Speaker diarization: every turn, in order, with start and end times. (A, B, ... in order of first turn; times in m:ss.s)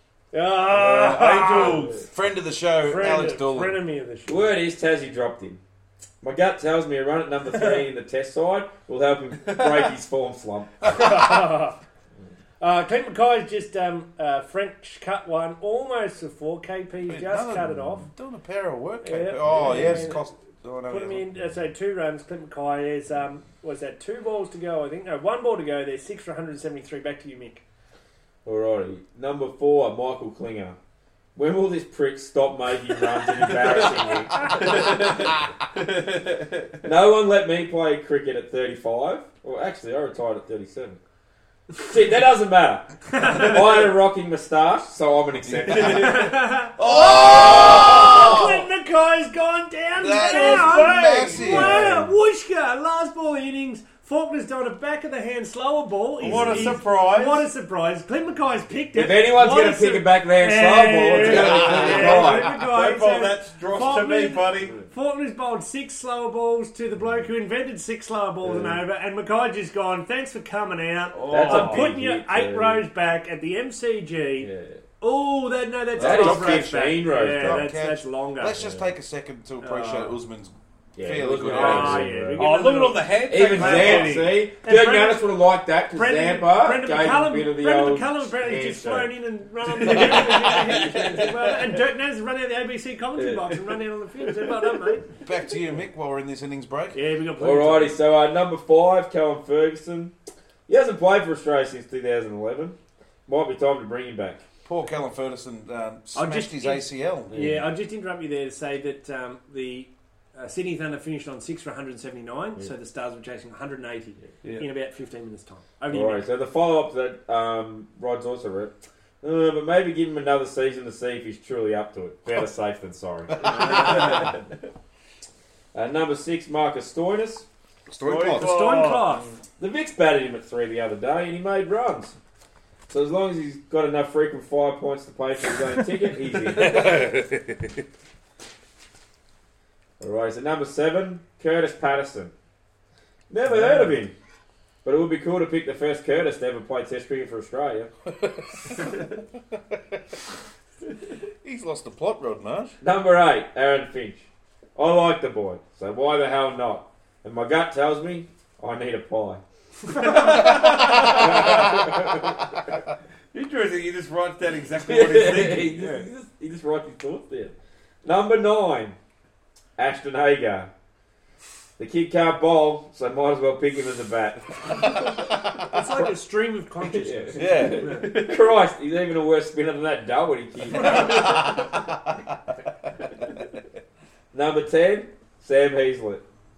0:00.3-0:02.0 A
0:00.8-0:03.8 B
0:01.0-0:02.0 C
0:02.8-0:04.5 A
0:04.3-0:05.6 D
0:06.2-0:10.9 D
0:10.8-0:11.8 A
0:12.6-0:18.1 A
0:17.1-0:21.3 B
0:19.0-0:20.3 A
0:20.9-0:27.6 A
0:28.4-0:30.8 D
0:31.3-0:35.0 D
0:34.5-0:36.9 C
0:36.8-0:41.0 D
0:41.8-0:46.3 D
0:43.1-0:43.8 A
0:45.6-0:46.2 B
0:45.6-0:46.0 C
0:45.7-1:18.7 A
0:46.8-0:48.6 B
0:47.2-0:48.3 D
0:50.0-0:51.8 B
0:50.2-0:51.9 C
0:56.2-0:57.5 C
0:56.2-0:56.6 B
0:58.9-1:02.5 D
1:01.1-1:04.8 C
1:01.2-1:02.4 B
1:11.1-1:11.9 C
1:11.2-1:12.9 D
1:14.4-1:14.8 D
1:16.0-1:22.2 B
1:16.0-1:17.7 D
1:18.5-1:18.9 D
1:19.6-1:20.2 A
1:20.9-1:22.6 D
1:21.4-1:25.3 A
1:22.3-1:24.4 C
1:23.3-1:29.1 D
1:25.9-1:35.1 A
1:29.8-1:30.8 D
1:29.8-1:31.8 C
1:33.2-1:33.5 D
1:34.2-1:34.9 C
1:35.2-1:37.0 B
1:36.9-1:38.0 A
1:37.4-1:40.1 D
1:40.7-1:44.4 D
1:44.6-1:47.4 B
1:46.1-1:56.2 A
1:47.3-1:47.6 C
1:55.9-2:04.3 D
2:03.4-2:04.3 A
2:03.8-2:04.2 C
2:05.7-2:07.4 D
2:07.9-2:08.5 B
2:08.0-2:09.2 C
2:08.4-2:09.3 A
2:09.6-2:12.1 D
2:12.9-2:16.9 D
2:16.5-2:17.8 B
2:20.0-2:22.3 D
2:23.3-2:24.1 D
2:24.8-2:27.9 D
2:28.1-2:30.0 B
2:31.4-2:32.7 B
2:32.8-2:42.7 D
2:40.3-2:41.7 B
2:40.8-2:41.1 C
2:43.3-2:46.1 C
2:44.8-2:49.0 D
2:49.8-2:50.7 D
2:51.8-2:55.2 D
2:54.9-2:56.0 B
2:55.7-2:58.2 A
2:56.8-3:01.7 D
2:57.4-2:58.3 B
2:57.9-2:58.4 C
3:00.8-3:01.8 B
3:04.3-3:06.2 D